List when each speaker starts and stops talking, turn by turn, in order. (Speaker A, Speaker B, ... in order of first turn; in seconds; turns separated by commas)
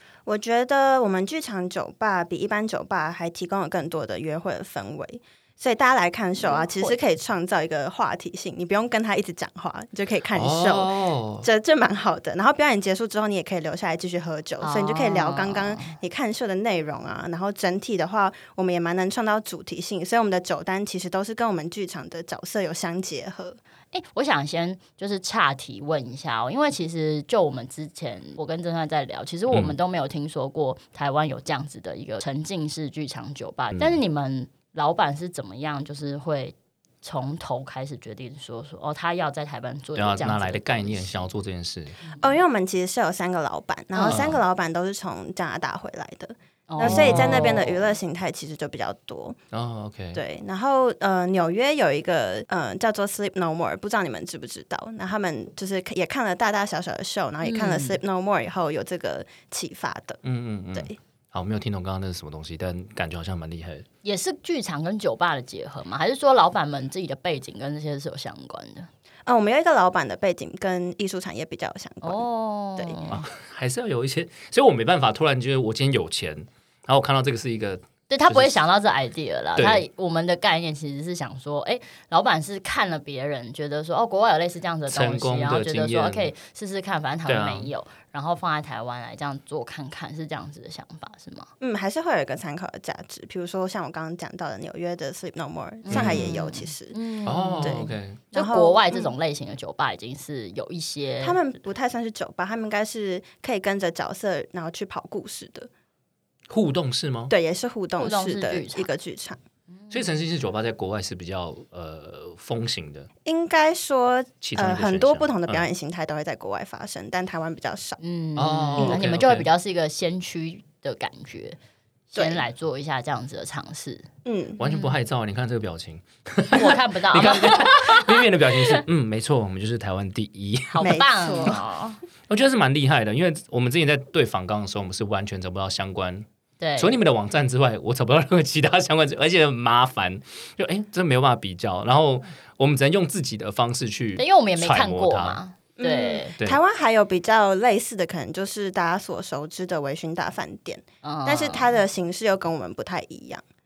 Speaker A: 0.2-23.6, Speaker B: 6.4-7.0, Speaker C: 10.3-11.4, Speaker B: 14.6-15.9, Speaker B: 23.9-41.1, Speaker C: 40.0-42.0, Speaker A: 42.2-49.4, Speaker B: 43.9-44.4, Speaker C: 44.0-44.4, Speaker B: 46.7-47.6, Speaker C: 46.8-47.8, Speaker C: 49.5-50.2, Speaker A: 50.1-60.2, Speaker B: 57.4-58.0, Speaker C: 60.2-63.8, Speaker B: 64.0-68.9, Speaker A: 69.2-72.2, Speaker B: 72.0-73.2, Speaker A: 72.8-73.0, Speaker C: 73.1-78.6, Speaker B: 78.1-91.5, Speaker C: 79.6-79.8, Speaker C: 84.9-86.3, Speaker C: 87.3-87.7, Speaker A: 91.6-97.0, Speaker B: 95.8-101.4, Speaker C: 95.9-96.3, Speaker C: 97.2-98.2, Speaker A: 97.6-99.1, Speaker A: 101.2-105.7, Speaker C: 106.5-107.3, Speaker A: 107.3-109.4, Speaker B: 108.0-108.9, Speaker C: 109.9-113.1, Speaker A: 113.2-118.0, Speaker C: 114.4-115.7, Speaker B: 118.0-121.6, Speaker C: 118.4-119.5, Speaker B: 122.1-124.1, Speaker A: 122.2-122.5, Speaker A: 124.2-124.6, Speaker C: 124.6-131.0, Speaker B: 124.6-124.9, Speaker B: 126.5-128.8, Speaker B: 130.7-132.0, Speaker A: 130.8-131.6, Speaker C: 132.3-136.2, Speaker B: 136.6-136.9, Speaker C: 136.8-145.4, Speaker B: 144.2-146.3, Speaker A: 145.8-153.4, Speaker B: 151.0-151.8